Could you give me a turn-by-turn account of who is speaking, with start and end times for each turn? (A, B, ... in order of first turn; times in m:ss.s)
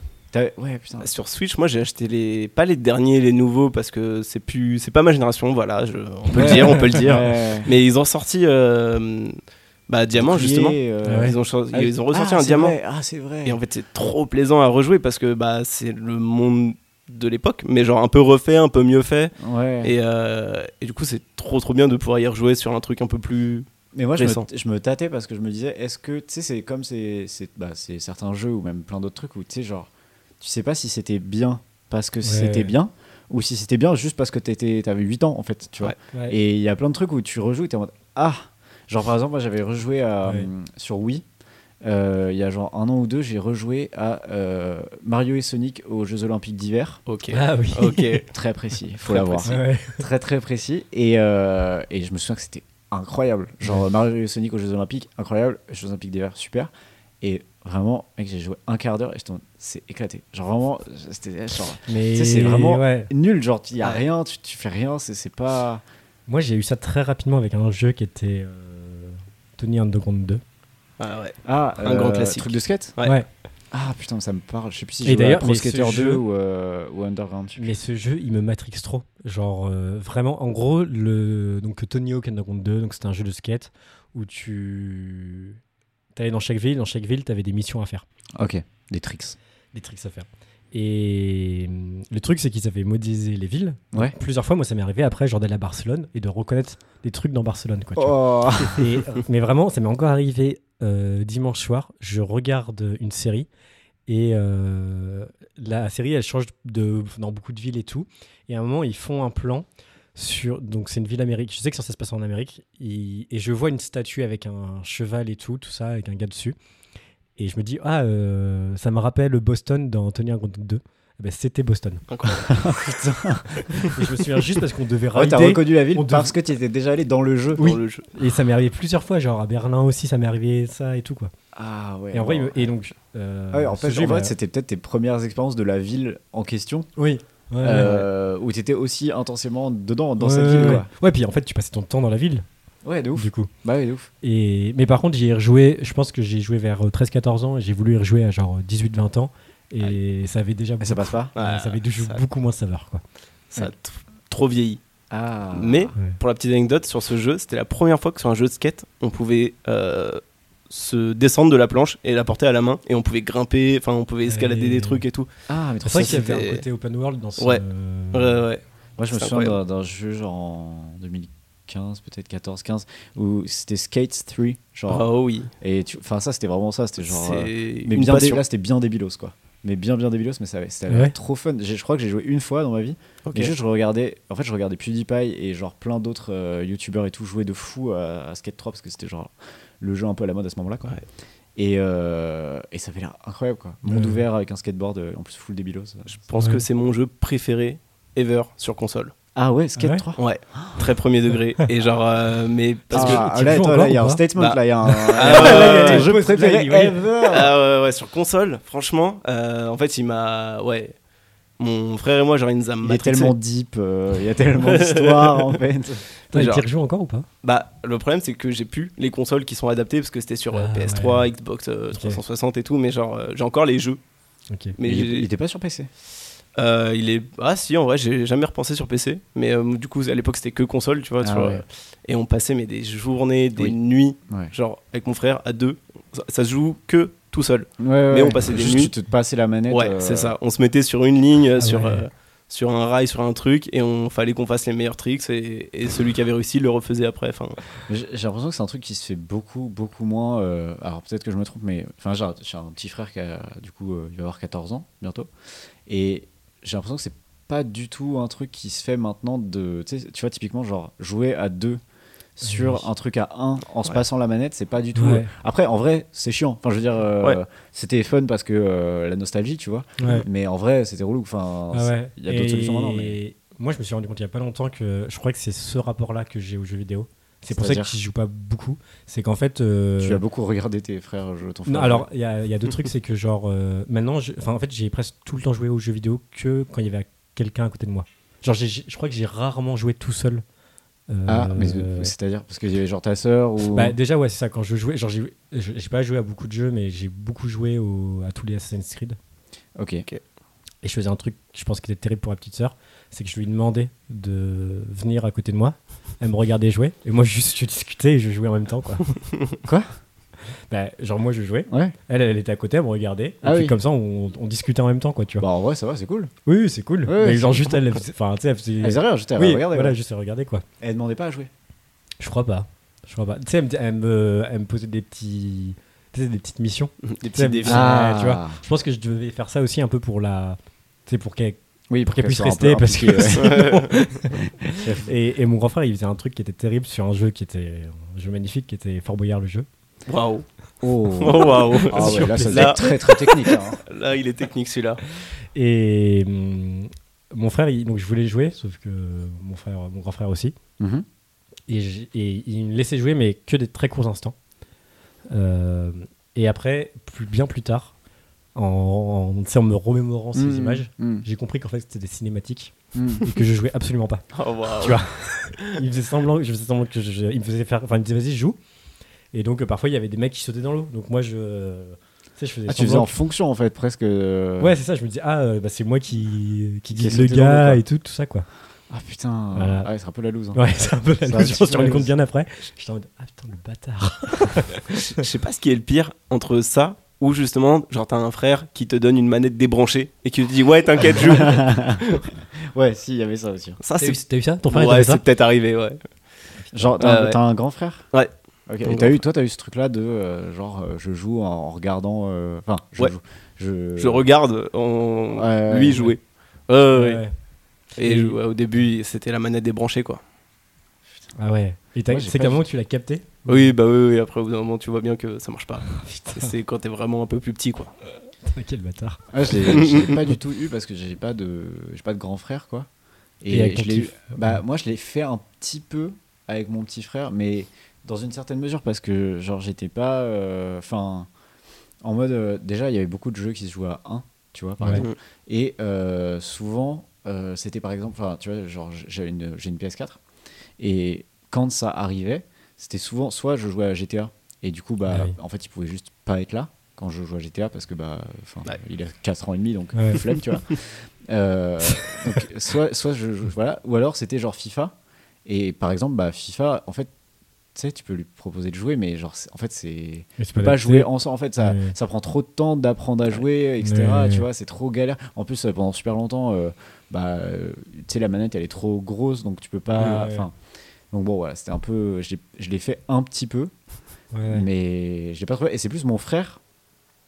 0:00.3-0:01.1 A
0:01.0-0:12.8 B
0:06.3-0:07.7 A
0:06.4-0:07.2 C
0:10.2-0:13.6 A
0:11.0-0:11.4 C
0:13.4-0:24.5 B
0:19.4-0:20.0 A
0:24.0-0:41.2 A
0:32.2-0:32.7 C
0:36.1-0:36.4 C
0:41.8-0:47.0 A
0:47.1-0:48.3 B
0:47.3-0:48.2 C
0:48.3-1:05.8 A
0:49.1-0:49.5 B
0:49.4-0:50.0 C
1:01.9-1:03.1 C
1:06.3-1:10.4 C
1:11.0-1:13.2 B
1:11.4-1:13.0 A
1:13.7-1:17.8 A
1:15.0-1:16.2 C
1:17.6-1:25.6 C
1:26.2-1:28.1 C
1:28.4-1:29.4 A
1:29.7-1:43.5 C
1:38.0-1:39.0 A
1:44.1-1:56.6 C
1:57.4-2:02.1 C
2:02.1-2:02.6 B
2:02.4-2:03.9 A
2:03.6-2:06.4 C
2:05.1-2:07.8 A
2:07.6-2:08.1 B
2:07.6-2:11.3 C
2:11.6-2:12.7 A
2:12.1-2:14.3 C
2:13.5-2:16.9 A
2:17.0-2:18.1 C
2:17.6-2:20.9 A
2:20.2-2:22.5 C
2:22.8-2:24.1 A
2:23.2-2:23.5 C
2:24.2-2:33.0 C
2:30.8-2:31.3 A
2:31.4-2:32.2 B
2:33.5-2:34.8 B
2:35.1-2:35.9 A
2:35.5-2:45.3 B
2:44.3-2:45.0 C
2:45.5-2:46.5 A
2:45.8-2:48.4 C
2:46.0-2:46.6 B
2:48.1-2:49.6 B
2:49.0-2:55.1 A
2:54.9-2:55.5 B
2:55.6-3:11.0 A
2:57.0-2:58.4 B
3:00.9-3:01.2 C
3:03.2-3:03.6 B
3:11.6-3:16.1 A
3:13.9-3:14.2 C
3:16.1-3:19.1 B
3:19.4-3:20.8 A
3:19.8-3:20.0 C
3:20.2-3:23.3 B
3:22.9-3:27.6 A
3:22.9-3:24.2 C
3:24.4-3:26.1 B
3:24.8-3:27.2 C
3:27.3-3:31.0 B
3:31.6-3:33.3 B
3:32.8-3:36.0 A
3:34.6-3:35.6 B
3:36.3-3:36.6 B
3:36.3-3:37.3 C
3:37.4-3:44.0 B
3:40.5-3:41.3 C
3:41.9-3:42.2 C
3:44.5-3:44.8 C
3:44.8-3:45.3 B
3:44.8-3:45.9 A
3:46.6-3:58.9 B
3:51.2-3:51.6 A
3:57.8-4:00.4 A
3:59.7-4:07.6 B
4:01.6-4:02.0 C
4:07.9-4:15.3 A
4:15.9-4:21.8 A
4:22.4-4:33.2 A
4:22.4-4:22.8 C
4:25.0-4:25.3 C
4:30.0-4:30.3 C
4:31.7-4:40.2 C
4:37.6-4:38.0 A
4:40.0-4:42.1 A
4:41.7-4:50.4 C
4:51.1-4:52.1 C
4:51.3-4:54.0 A
4:53.7-4:59.2 C
4:59.8-5:00.0 A
5:00.8-5:09.1 C
5:09.6-5:09.9 A
5:10.7-5:15.4 C
5:11.7-5:12.0 A
5:13.4-5:13.7 A
5:15.4-5:16.3 A
5:16.5-5:20.6 C
5:17.1-5:17.8 A
5:18.8-5:20.0 A
5:20.8-5:21.5 A
5:22.2-5:31.6 C
5:27.0-5:27.8 B
5:27.7-5:28.6 A
5:31.9-5:33.7 A
5:32.1-5:39.7 C
5:33.4-5:33.9 B
5:34.4-5:35.1 A
5:40.1-5:40.4 B
5:40.8-5:43.8 A
5:41.2-5:45.0 B
5:41.9-5:42.9 C
5:45.6-5:50.6 C
5:50.8-5:51.1 A
5:51.7-5:54.4 C
5:55.3-5:57.9 C
5:58.6-6:08.6 C
6:00.4-6:01.3 A
6:02.9-6:03.2 A
6:04.4-6:05.0 B
6:09.3-6:13.2 C
6:12.7-6:14.8 A
6:14.6-6:18.5 C
6:16.9-6:17.8 A
6:18.9-6:20.6 A
6:19.5-6:19.9 C
6:20.5-6:25.2 C
6:21.2-6:22.1 A
6:25.0-6:31.8 B
6:31.1-6:32.1 A
6:32.6-6:33.8 A
6:33.8-6:36.0 B
6:34.0-6:35.2 C
6:36.7-6:38.0 A
6:37.0-6:37.4 B
6:38.7-6:44.2 A
6:38.8-6:39.2 B
6:44.0-6:47.2 B
6:45.3-6:46.1 A
6:46.9-6:47.3 C
6:48.0-6:50.2 B
6:48.0-6:48.4 C
6:51.4-6:53.7 C
6:52.1-6:52.6 A
6:53.5-6:57.9 B
6:55.9-6:56.5 C
6:58.5-7:00.1 C
6:59.3-7:02.9 A
6:59.7-7:00.2 B
7:03.4-7:11.3 A
7:03.5-7:04.6 C
7:12.0-7:20.2 A
7:14.8-7:15.0 C
7:20.8-7:34.9 A
7:25.1-7:25.4 C
7:30.0-7:30.2 C
7:35.5-7:37.1 A
7:37.8-7:50.5 A
7:40.4-7:42.0 C
7:43.8-7:44.5 C
7:50.0-7:50.5 C
7:51.1-7:53.7 A
7:54.3-7:54.7 C
7:54.5-7:56.6 A